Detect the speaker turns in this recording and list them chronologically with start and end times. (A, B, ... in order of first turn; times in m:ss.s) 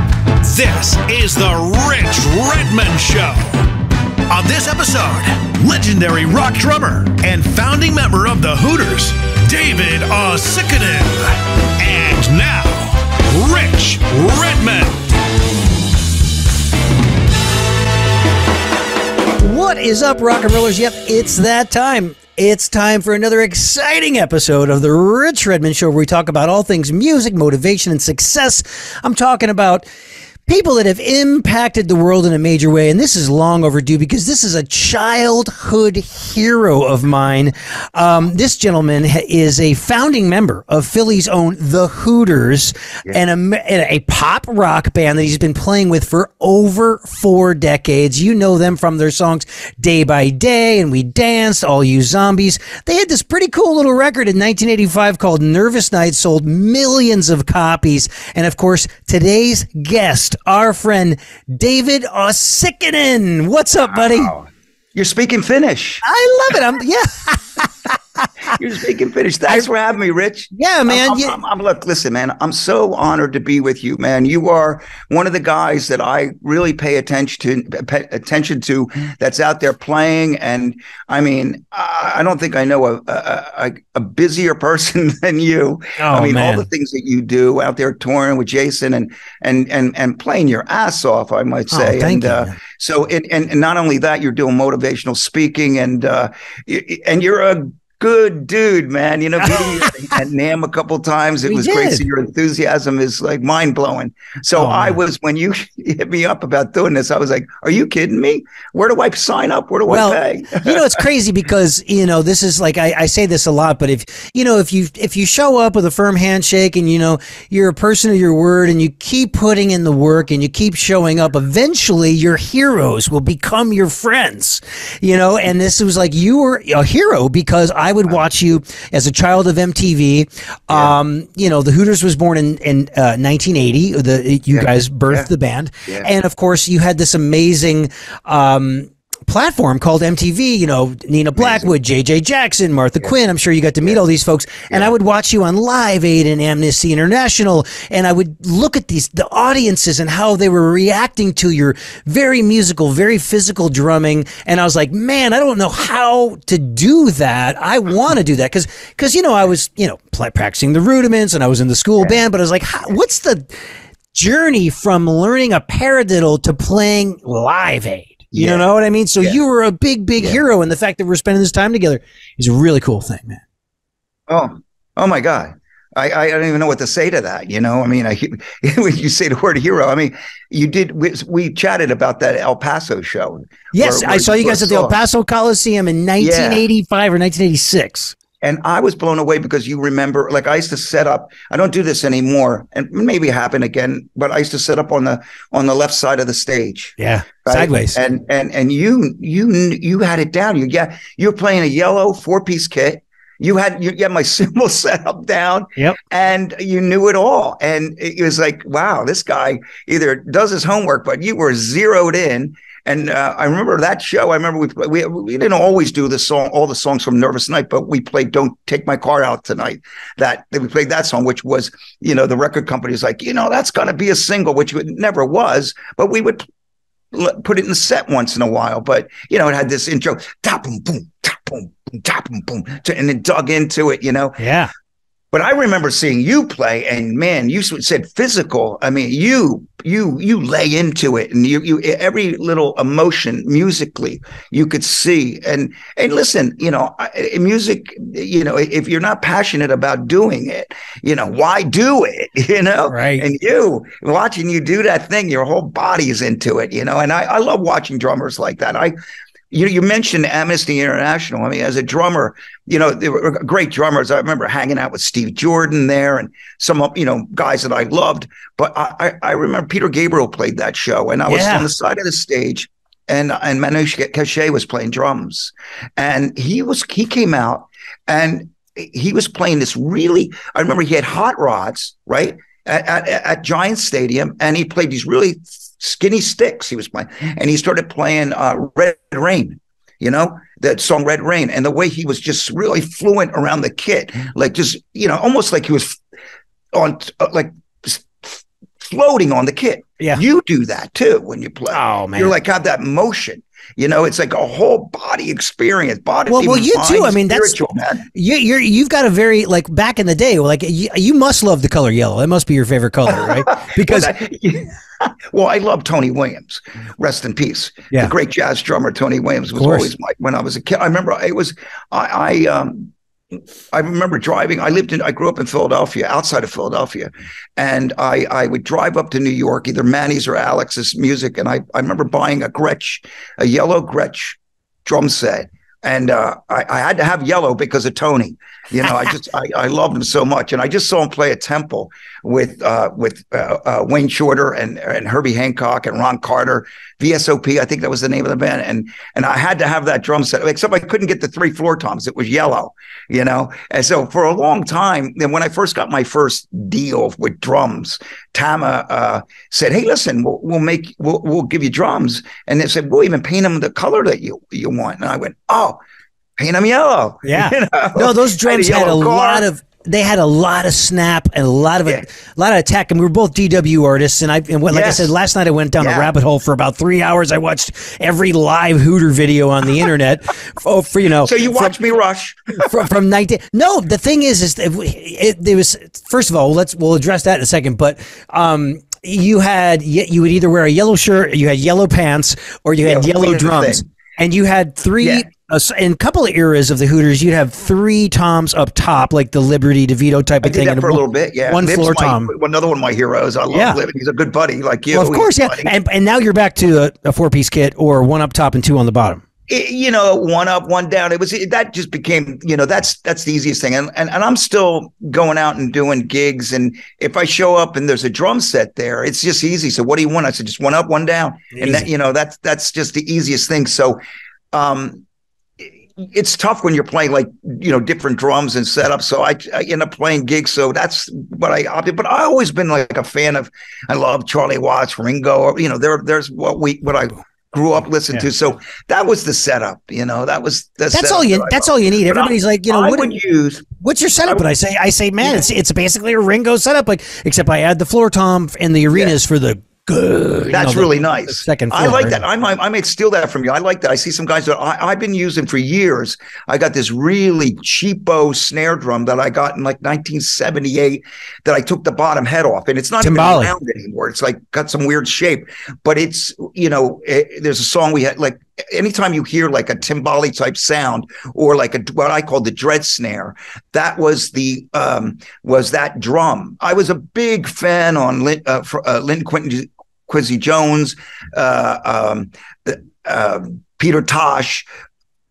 0:00.4-0:03.6 A
0:04.3-0:15.1 A
0:19.4-0:29.8 B
0:30.5-1:04.3 B
1:03.9-1:06.0 C
1:06.0-1:08.5 B
1:08.5-1:51.0 C
1:10.5-1:11.4 B
1:26.0-1:26.7 B
1:31.7-1:32.6 B
1:39.5-1:39.9 B
1:41.5-1:42.0 B
1:44.6-1:45.0 B
1:49.9-2:43.5 B
2:10.7-2:11.0 C
2:14.5-2:15.3 C
2:21.4-2:21.7 C
2:44.1-2:53.4 B
2:48.3-2:48.7 C
2:54.3-3:05.0 C
3:03.7-3:08.2 B
3:06.2-3:06.6 C
3:08.4-3:46.5 C
3:17.0-3:18.0 B
3:47.1-3:54.4 C
3:54.4-3:54.7 B
3:55.3-4:18.9 C
4:12.9-4:13.3 B
4:19.5-4:56.0 C
4:31.3-4:31.7 B
4:56.7-5:08.1 C
5:01.7-5:02.4 B
5:06.3-5:14.1 B
5:13.1-5:22.9 C
5:19.6-5:19.9 B
5:23.7-6:05.8 C
6:06.4-6:09.5 C
6:07.2-6:21.7 B
6:14.7-6:15.2 C
6:15.8-6:16.1 C
6:21.2-6:22.7 C
6:22.6-6:42.3 B
6:32.8-6:33.8 C
6:35.0-6:35.3 C
6:40.4-6:45.7 C
6:43.5-6:43.8 B
6:44.9-6:49.2 B
6:49.5-7:04.0 C
7:01.5-7:01.9 B
7:04.5-7:05.0 C
7:05.6-7:23.7 C
7:20.9-7:23.1 B
7:23.8-7:32.2 B
7:30.5-8:04.7 C
7:43.0-7:43.5 B